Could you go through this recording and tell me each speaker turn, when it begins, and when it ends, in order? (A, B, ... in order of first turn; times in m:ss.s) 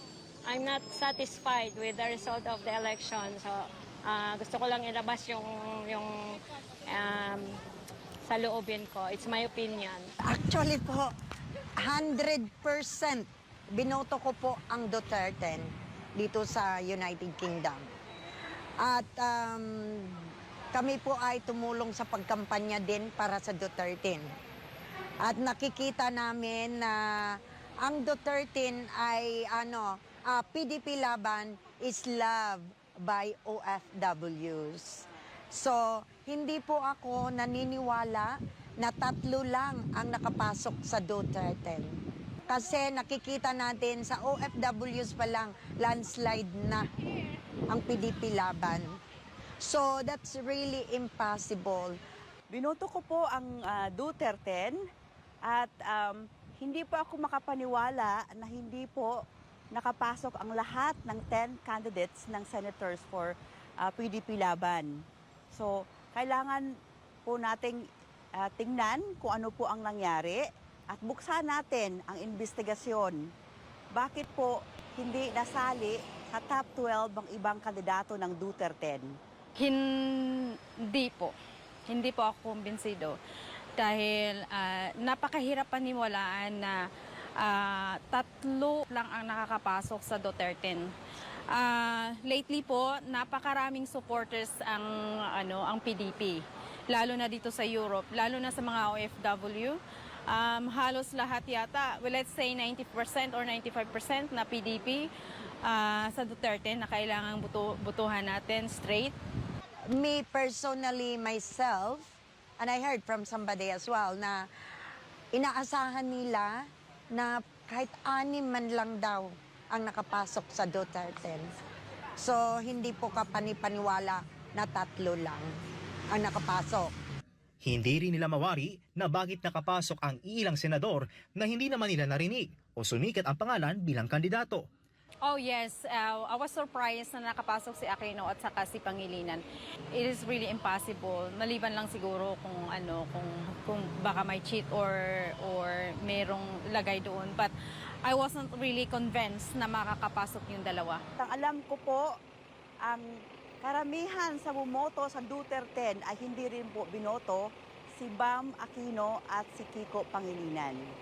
0:00.5-0:07.6 A
0:08.2-0:10.1 A
0:10.2-0:11.1 B
0:11.8-0:17.9 B
0:18.8-0:24.3 B
0:25.2-0:42.0 B
0:42.5-0:46.9 B
0:47.7-0:49.0 B
0:49.6-0:52.0 B
0:52.5-0:54.8 C
0:55.4-0:59.1 C
0:59.7-1:04.9 C
1:05.5-1:06.6 C
1:07.3-1:07.8 C
1:08.4-1:13.2 C
1:13.9-1:19.1 C
1:19.6-1:21.3 D
1:21.9-1:23.2 D
1:23.8-1:26.8 D
1:27.4-1:30.9 D
1:31.5-1:45.1 D
1:45.6-1:49.1 D
1:50.0-1:54.4 B
1:55.3-1:56.6 B
1:57.1-2:01.5 B
2:02.2-2:05.5 B
2:06.1-2:06.9 B
2:07.6-2:14.6 E
2:15.2-2:19.4 D
2:19.9-2:27.5 D
2:28.0-2:31.0 D
2:31.2-2:32.1 C
2:33.6-2:40.8 C